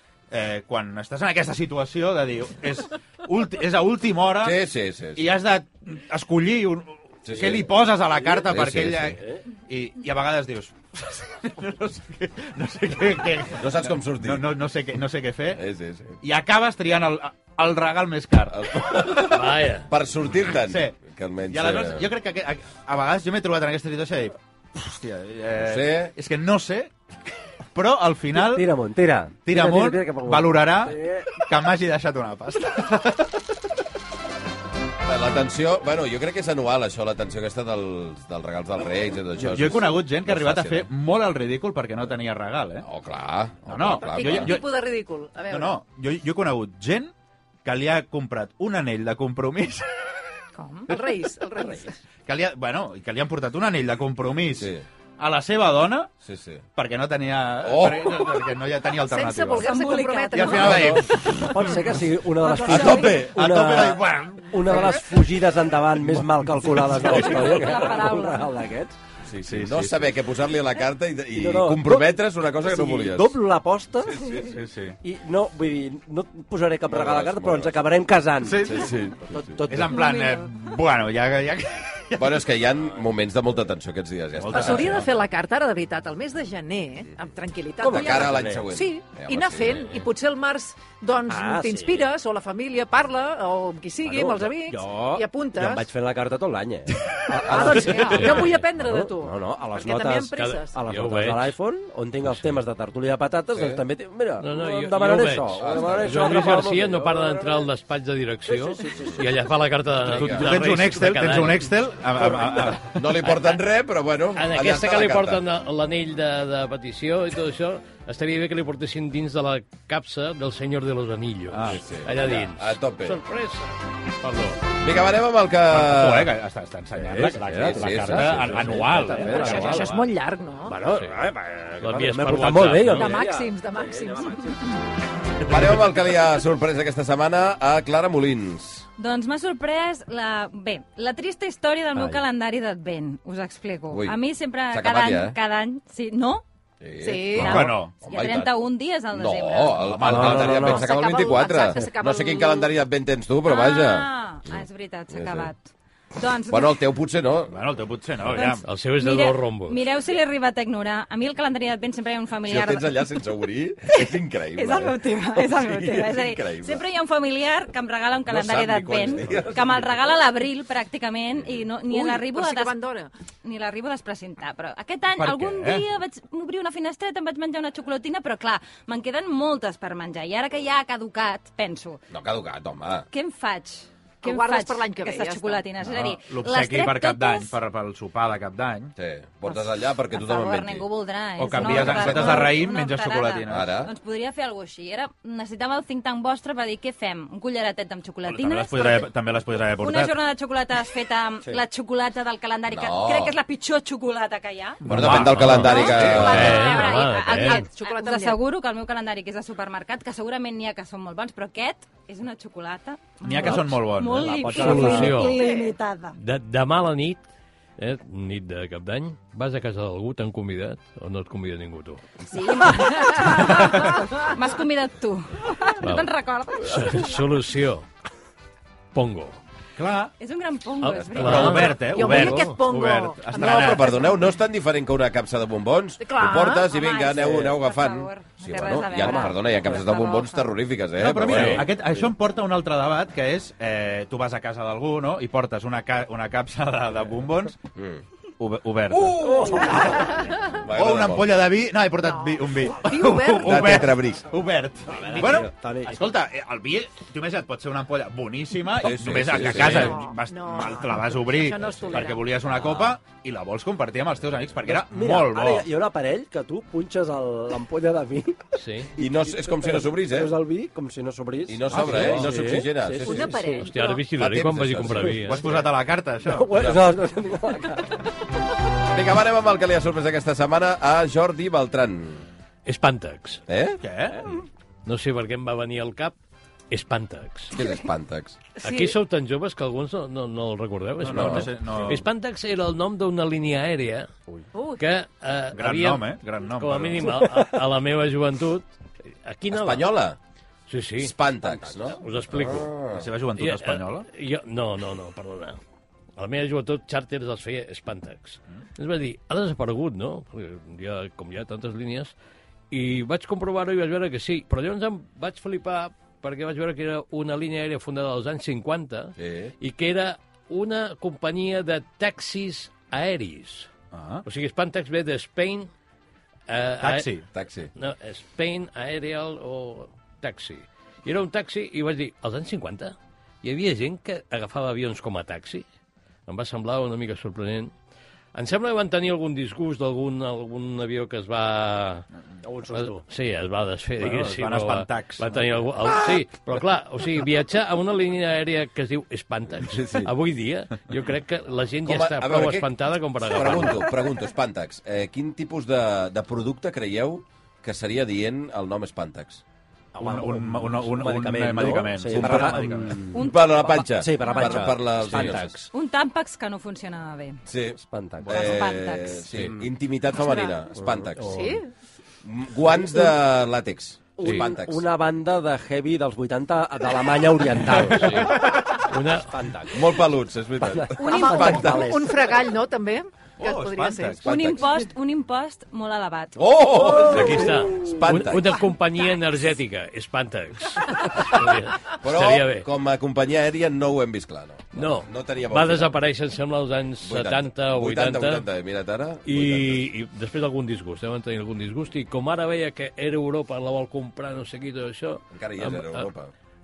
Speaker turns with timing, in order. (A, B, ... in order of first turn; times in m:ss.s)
0:00.3-0:04.6 A
0:04.4-0:05.3 B
0:05.2-0:15.6 A
0:07.2-0:07.7 B
0:08.4-0:09.2 B
0:13.6-0:14.4 B
0:15.5-0:16.2 B
0:16.2-0:19.3 A
0:18.5-0:22.1 B
0:19.3-0:19.9 C
0:20.6-0:21.0 A
0:21.5-0:26.9 A
0:25.6-0:26.1 B
0:27.7-0:28.7 A
0:28.3-0:31.3 D
0:29.4-0:33.4 A
0:35.0-0:40.9 B
0:39.4-0:42.9 A
0:42.8-0:44.6 B
0:43.7-0:44.7 A
0:44.0-0:45.8 E
0:45.5-0:47.1 A
0:47.6-0:49.8 A
0:50.6-0:52.0 E
0:52.2-0:56.1 A
0:54.6-0:54.8 B
0:56.2-0:56.6 B
0:56.7-0:59.7 A
0:57.6-0:58.5 B
0:59.0-1:01.0 E
0:59.6-1:00.8 F
1:00.3-1:01.9 A
1:00.7-1:08.9 D
1:02.4-1:03.2 F
1:02.6-1:03.4 B
1:02.8-1:05.3 A
1:06.0-1:07.5 A
1:07.0-1:08.5 F
1:09.2-1:13.4 B
1:09.4-1:10.0 A
1:11.3-1:14.2 D
1:14.0-1:14.6 B
1:14.4-1:15.0 A
1:15.0-1:20.0 D
1:16.9-1:17.8 B
1:18.4-1:19.0 A
1:18.6-1:19.6 B
1:19.6-1:22.4 A
1:19.9-1:20.4 F
1:22.2-1:25.0 B
1:24.4-1:25.1 A
1:24.5-1:35.8 E
1:27.8-1:28.7 D
1:27.8-1:30.0 B
1:31.3-1:32.1 D
1:34.0-1:47.7 D
1:37.4-1:40.7 E
1:38.0-1:38.6 C
1:40.4-1:41.5 C
1:43.5-1:43.8 B
1:44.4-1:51.7 C
1:45.6-1:46.3 B
1:48.5-1:49.2 D
1:50.0-1:50.5 B
1:50.1-1:53.1 A
1:52.2-1:52.6 D
1:52.9-1:55.4 B
1:54.3-2:04.6 C
2:01.5-2:01.8 A
2:01.6-2:03.2 B
2:04.8-2:06.3 B
2:05.7-2:10.0 A
2:06.9-2:10.0 D
2:07.4-2:08.8 B
2:09.2-2:10.8 E
2:10.6-2:14.8 D
2:10.8-2:11.2 C
2:11.8-2:13.2 C
2:12.9-2:14.8 E
2:15.4-2:18.8 B
2:19.0-2:26.4 F
2:23.9-2:24.2 B
2:24.7-2:25.4 B
2:26.8-2:28.6 B
2:27.0-2:27.7 E
2:27.4-2:28.0 A
2:27.4-2:29.9 F
2:29.1-2:35.5 B
2:29.8-2:30.7 A
2:30.0-2:30.9 D
2:30.6-2:32.7 E
2:33.4-2:36.8 F
2:36.5-2:37.5 B
2:37.5-2:38.6 A
2:38.3-2:42.9 F
2:38.4-2:39.8 C
2:42.4-2:46.8 B
2:43.9-2:52.7 F
2:48.3-2:49.9 B
2:51.9-2:53.1 E
2:53.4-3:02.0 F
2:55.2-2:55.8 A
3:02.1-3:03.1 B
3:03.1-3:07.5 F
3:04.2-3:05.6 E
3:05.8-3:08.9 A
3:09.0-3:10.9 B
3:09.5-3:19.1 F
3:11.4-3:13.8 A
3:11.6-3:12.6 B
3:13.5-3:13.9 B
3:18.2-3:20.1 A
3:19.8-3:25.0 F
3:22.7-3:23.4 B
3:24.8-3:26.7 A
3:24.8-3:26.6 B
3:25.0-3:27.7 C
3:25.5-3:36.2 F
3:25.9-3:28.4 E
3:33.2-3:35.0 A
3:34.2-3:35.2 D
3:34.5-3:35.4 C
3:34.6-3:35.8 E
3:36.2-3:37.2 C
3:37.8-3:42.0 C
3:42.3-3:47.2 F
3:42.8-3:43.4 E
3:45.8-3:47.8 C
3:48.9-3:49.4 C
3:49.8-3:50.1 A
3:50.2-3:51.9 F
3:50.8-3:52.6 C
3:51.2-3:54.0 A
3:51.8-3:54.1 E
3:53.3-4:01.7 B
3:56.0-3:56.7 E
3:56.6-4:00.5 F
4:01.0-4:07.6 A
4:01.2-4:01.7 C
4:07.8-4:08.0 B
4:08.4-4:09.9 A
4:08.9-4:11.4 B
4:09.2-4:10.2 D
4:10.7-4:25.7 A
4:12.0-4:13.8 E
4:13.4-4:14.3 B
4:14.9-4:16.0 D
4:18.7-4:20.0 B
4:19.5-4:19.9 C
4:19.7-4:22.3 E
4:24.6-4:33.7 D
4:28.6-4:28.9 C
4:29.0-4:30.3 B
4:31.5-4:33.4 B
4:31.8-4:32.1 A
4:33.0-4:34.0 E
4:33.5-4:35.6 C
4:34.2-4:35.2 B
4:35.2-4:36.5 A
4:36.2-4:38.0 D
4:36.5-4:36.8 B
4:38.9-4:42.2 B
4:42.6-4:43.4 C
4:43.5-4:43.8 B
4:43.8-4:44.3 A
4:44.8-4:46.2 C
4:46.7-4:47.6 C
4:47.5-4:48.4 B
4:48.6-4:54.1 C
4:48.6-4:48.9 E
4:51.0-4:52.0 A
4:51.1-4:51.5 B
4:54.5-4:54.8 E
4:54.8-4:59.9 C
4:55.5-4:57.2 A
4:59.5-5:00.2 B
5:00.7-5:01.1 C
5:01.0-5:03.1 B
5:01.9-5:02.7 C
5:02.9-5:04.1 A
5:03.4-5:05.6 C
5:06.2-5:12.1 C
5:12.7-5:23.7 C
5:19.2-5:19.5 B
5:23.9-5:24.2 A
5:24.2-5:25.7 C
5:26.5-5:27.1 C
5:26.8-5:27.2 A
5:27.3-5:27.7 B
5:27.8-5:35.6 C
5:36.3-5:37.7 C
5:38.3-5:42.1 C
5:42.4-5:43.0 D
5:42.7-5:53.9 C
5:44.0-5:45.5 A
5:51.8-5:52.7 B
5:53.2-5:59.4 B
6:00.0-6:03.1 A
6:00.0-6:05.7 D
6:02.1-6:02.6 B
6:03.1-6:04.7 F
6:03.2-6:05.6 B
6:05.7-6:07.4 F
6:07.4-6:11.6 B
6:07.8-6:08.4 D
6:08.2-6:08.6 A
6:08.3-6:09.3 F
6:10.2-6:10.6 E
6:10.8-6:11.6 D
6:11.2-6:11.6 E
6:12.2-6:14.8 B
6:14.2-6:20.0 D
6:17.9-6:19.3 C
6:19.7-6:21.9 B
6:20.6-6:22.2 D
6:21.0-6:24.2 E
6:23.4-6:24.2 A
6:24.2-6:26.4 F
6:24.2-6:24.7 B
6:26.4-6:28.6 B
6:26.8-6:27.5 D
6:27.0-6:32.6 C
6:32.0-6:36.0 B
6:34.7-6:38.4 C
6:37.0-6:39.9 B
6:39.2-6:46.1 C
6:45.3-6:46.3 B